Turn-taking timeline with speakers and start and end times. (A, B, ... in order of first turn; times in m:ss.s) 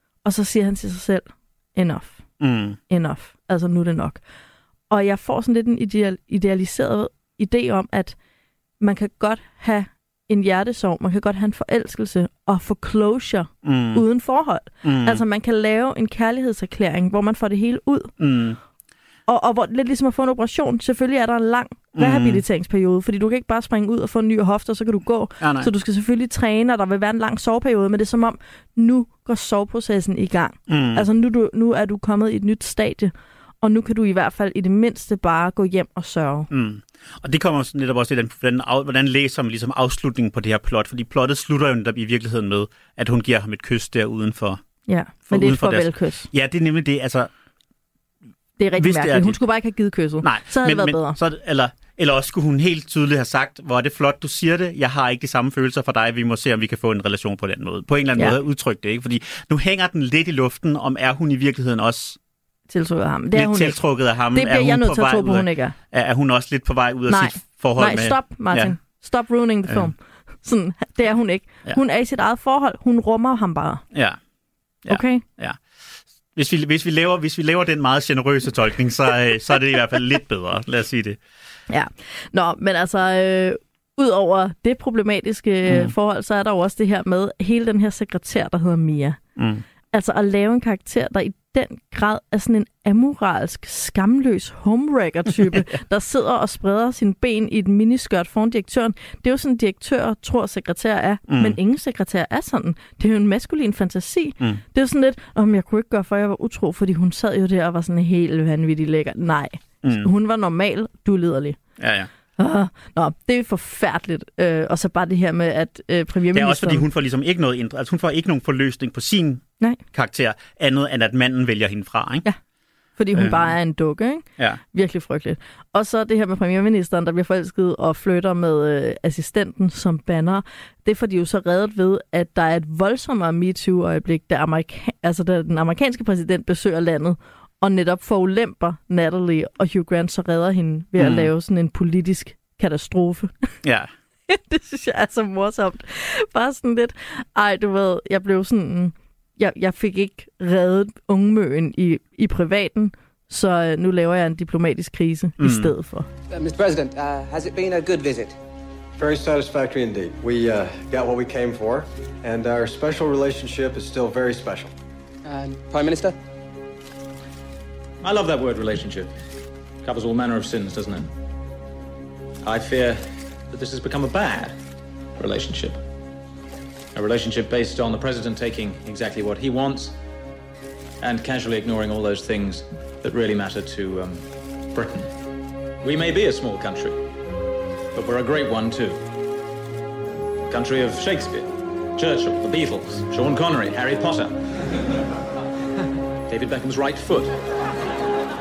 0:00.2-0:02.2 A
0:02.4-0:02.8 B
0:02.9-0:04.2 A
0:04.9-0:08.2 A
0:08.8-0:18.1 A
0:13.6-0:14.0 B
0:14.8-0:15.2 B
0:18.2-0:18.6 B
0:19.3-0:36.5 A
0:22.0-0:22.4 B
0:25.4-0:25.7 B
0:30.7-0:31.1 B
0:36.5-0:44.6 B
0:44.9-0:46.3 A
0:45.3-0:47.3 B
0:48.6-0:51.2 A
0:48.8-0:49.4 B
0:50.2-1:02.2 B
1:02.7-1:05.8 A
1:03.3-1:08.8 B
1:07.1-1:13.8 A
1:13.9-1:14.2 B
1:14.8-1:15.6 B
1:14.9-1:15.2 A
1:16.4-1:21.2 B
1:21.7-1:29.2 A
1:25.7-1:25.9 B
1:29.4-1:29.6 B
1:29.9-1:51.6 A
1:41.3-1:41.6 B
1:49.8-1:50.1 B
1:51.8-1:52.1 B
1:52.4-1:56.8 A
1:56.3-2:02.2 B
2:03.0-2:23.5 A
2:03.1-2:03.6 B
2:21.0-2:21.3 B
2:23.6-2:23.9 B
2:24.3-2:36.1 A
2:35.4-2:35.7 B
2:36.3-2:38.4 C
2:39.0-2:44.7 D
2:45.2-2:46.2 C
2:48.0-2:49.2 E
2:49.8-2:51.1 E
2:52.4-2:54.6 E
2:55.2-2:55.8 E
2:57.0-3:00.0 E
3:01.0-3:05.1 E
3:05.8-3:07.0 E
3:07.9-3:09.0 E
3:10.5-3:14.4 E
3:16.3-3:17.4 E